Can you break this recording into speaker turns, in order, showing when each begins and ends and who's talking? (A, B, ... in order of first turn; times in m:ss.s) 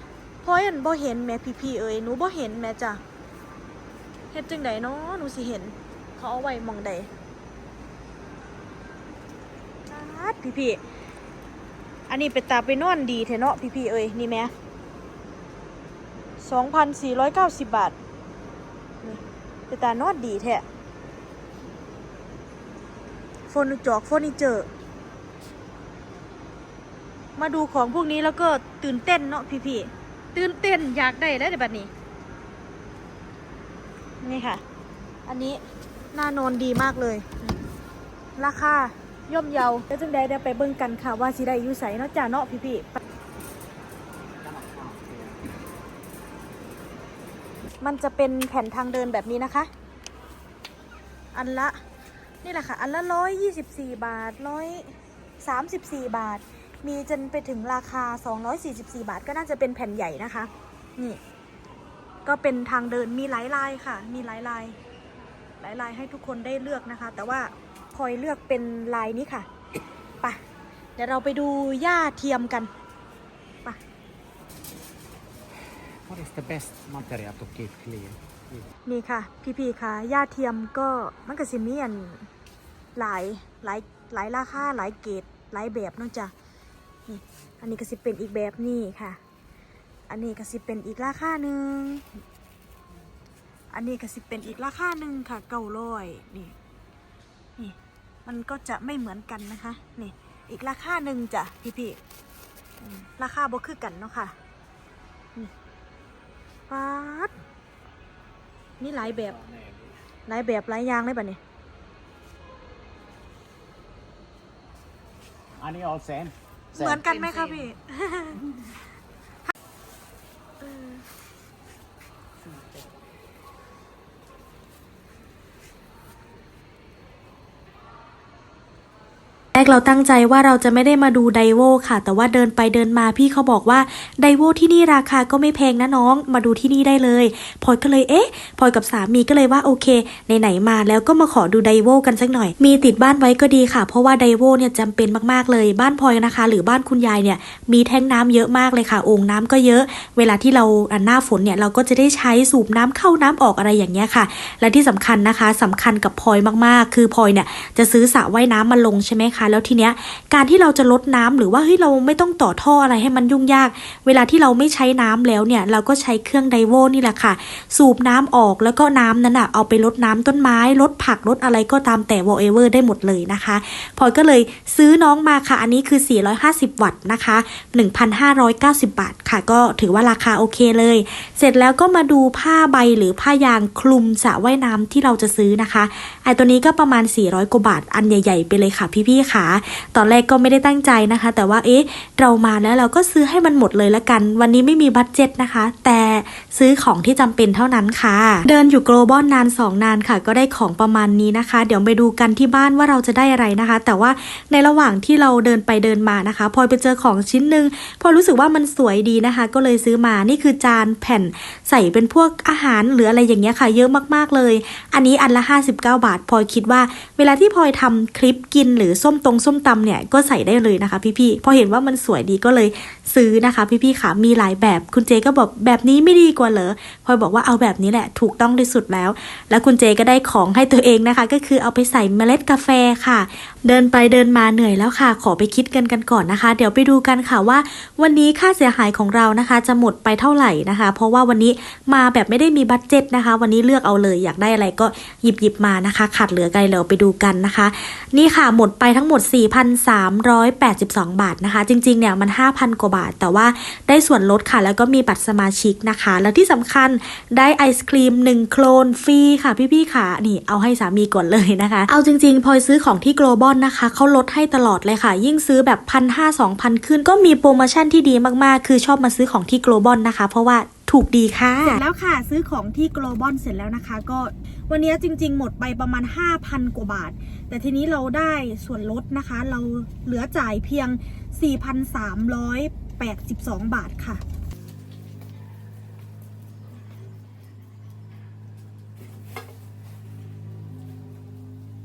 0:00.4-0:03.0 A
0:04.3-0:07.1 A
0:09.9-0:10.8 A
0:12.1-0:14.5 A
0:16.4-0:17.9 A
0:19.0-0:20.6 A
0:23.5-0:24.7 A
0:27.4-0:31.9 A
0:34.2-0:34.6 A
0:35.2-0:35.6 A
0:36.1-0:37.5 A
0:38.4-0:43.0 A
0:44.4-0:45.2 B
0:47.8-0:49.7 A
0:51.3-0:51.8 A
0:52.4-1:01.2 A
1:02.2-1:04.8 A
1:05.6-1:09.5 A
1:11.0-1:12.7 A
1:16.0-1:18.6 B
1:18.8-1:22.3 A
1:23.0-1:26.3 A
1:27.1-1:29.2 A
1:30.1-1:32.0 A
1:33.7-1:36.5 A
1:37.6-1:42.0 A
1:42.9-1:44.4 A
1:46.7-1:47.3 A
1:48.8-1:49.4 A
1:49.4-1:49.8 B
1:50.3-1:51.4 A
1:55.6-1:57.0 B
1:56.7-1:58.5 A
2:00.6-2:01.0 A
2:09.5-4:31.8 C
4:31.6-4:44.2 A